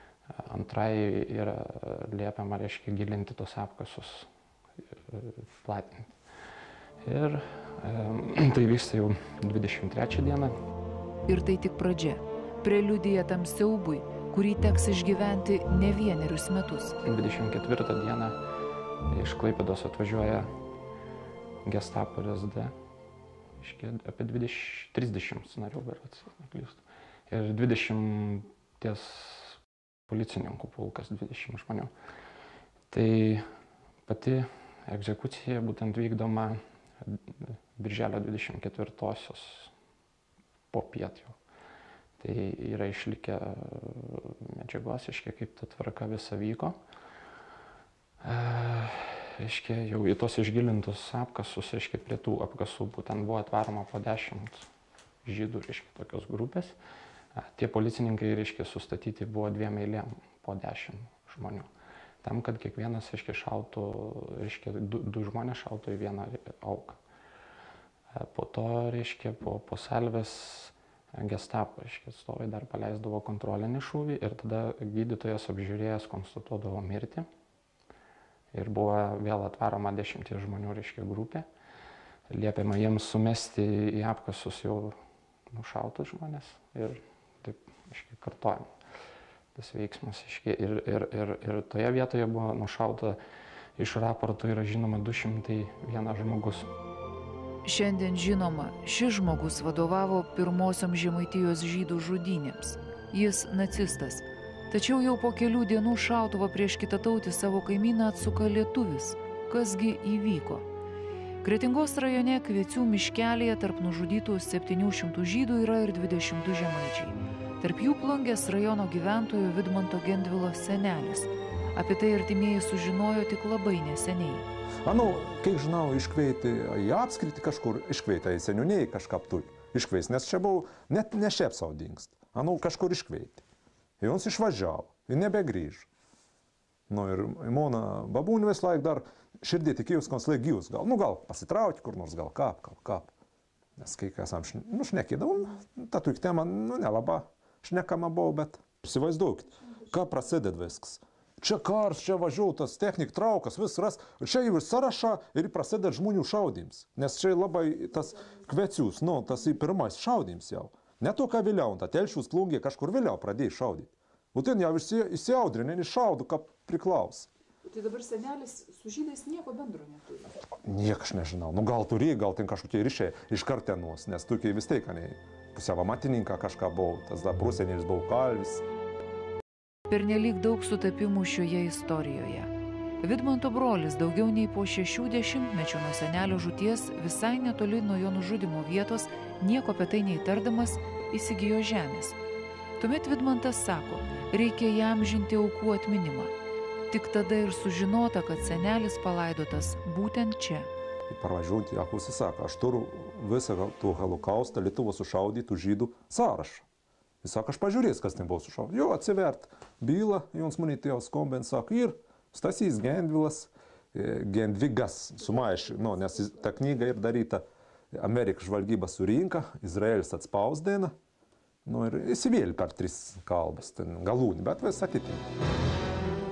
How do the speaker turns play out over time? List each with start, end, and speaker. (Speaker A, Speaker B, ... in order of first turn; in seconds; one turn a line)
Speaker A: 0.4-4.3
Speaker A: 5.1-6.1
Speaker A: 7.0-10.5
Speaker B: 11.3-17.0
Speaker A: 17.0-18.4
Speaker A: 19.1-20.5
Speaker A: 21.6-22.7
Speaker A: 23.6-29.6
Speaker A: 30.1-31.9
Speaker A: 32.9-33.4
Speaker A: 34.1-37.2
Speaker A: 37.8-39.7
Speaker A: 40.7-41.4
Speaker A: 42.2-46.8
Speaker A: 48.2-54.7
Speaker A: 55.3-56.8
Speaker A: 57.5-61.7
Speaker A: 62.2-67.0
Speaker A: 68.2-77.2
Speaker A: 78.5-81.5
Speaker A: 82.3-85.0
Speaker A: 85.5-88.7
Speaker A: 89.5-93.2
Speaker A: 93.8-96.7
Speaker B: 97.7-110.7
Speaker B: 111.4-124.5
Speaker C: 124.8-133.4
Speaker C: 134.0-135.9
Speaker C: 136.9-143.1
Speaker C: 143.8-167.3
Speaker D: 167.7-170.3
Speaker C: 170.6-178.6
Speaker B: 179.9-182.5
Speaker B: 183.0-192.2
Speaker B: 192.8-196.3
Speaker B: 196.9-200.7
Speaker C: 201.1-206.7
Speaker C: 207.2-220.9
Speaker C: 221.7-225.3